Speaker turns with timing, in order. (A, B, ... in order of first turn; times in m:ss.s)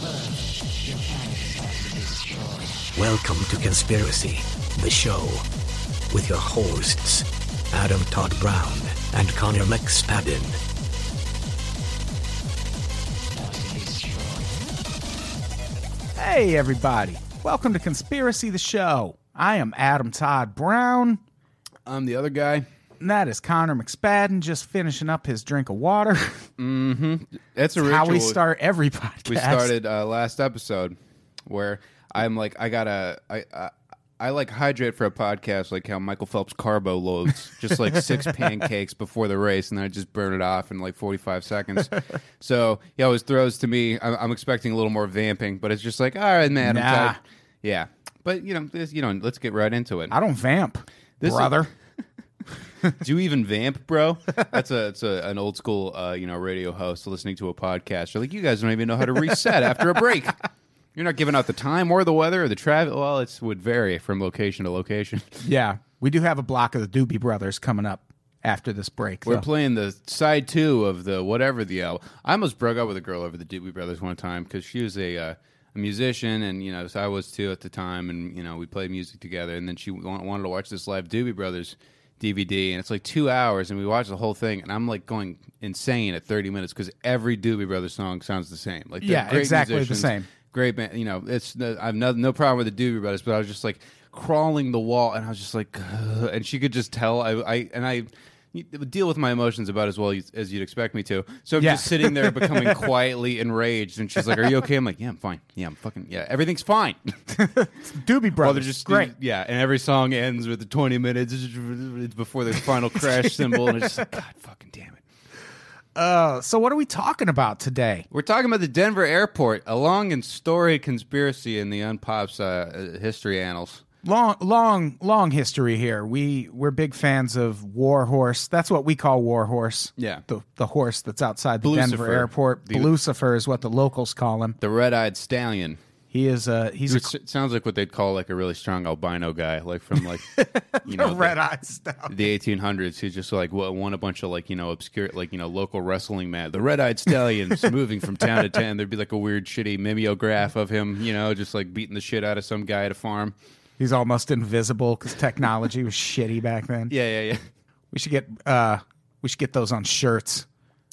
0:02.9-0:05.4 A
0:06.1-0:10.6 A
0:13.6-0:14.1 A
0:16.2-0:21.2 B
0:21.8-0:22.7 C
0:23.0-0:26.5 B
0:26.6-0:28.4 C
0:27.8-0:29.7 B
0:29.2-0:50.1 C
0:46.6-0:47.2 B
0:50.1-0:51.7 B
0:51.2-0:51.7 C
0:52.9-1:00.4 C
1:00.9-1:05.4 C
1:05.4-1:09.4 B
1:09.2-1:47.1 C
1:29.0-1:30.3 B
1:41.6-1:42.8 B
1:47.3-1:49.1 B
1:48.4-1:55.0 C
1:56.0-1:58.0 B
1:58.1-2:03.8 C
2:04.0-2:14.6 B
2:10.0-2:10.2 C
2:11.6-2:12.9 C
2:14.6-2:15.8 C
2:16.1-2:17.1 B
2:16.9-2:20.3 C
2:20.3-2:22.3 B
2:20.8-2:21.4 C
2:22.1-2:33.3 C
2:33.8-2:36.9 B
2:36.9-2:37.4 C
2:37.9-2:40.4 B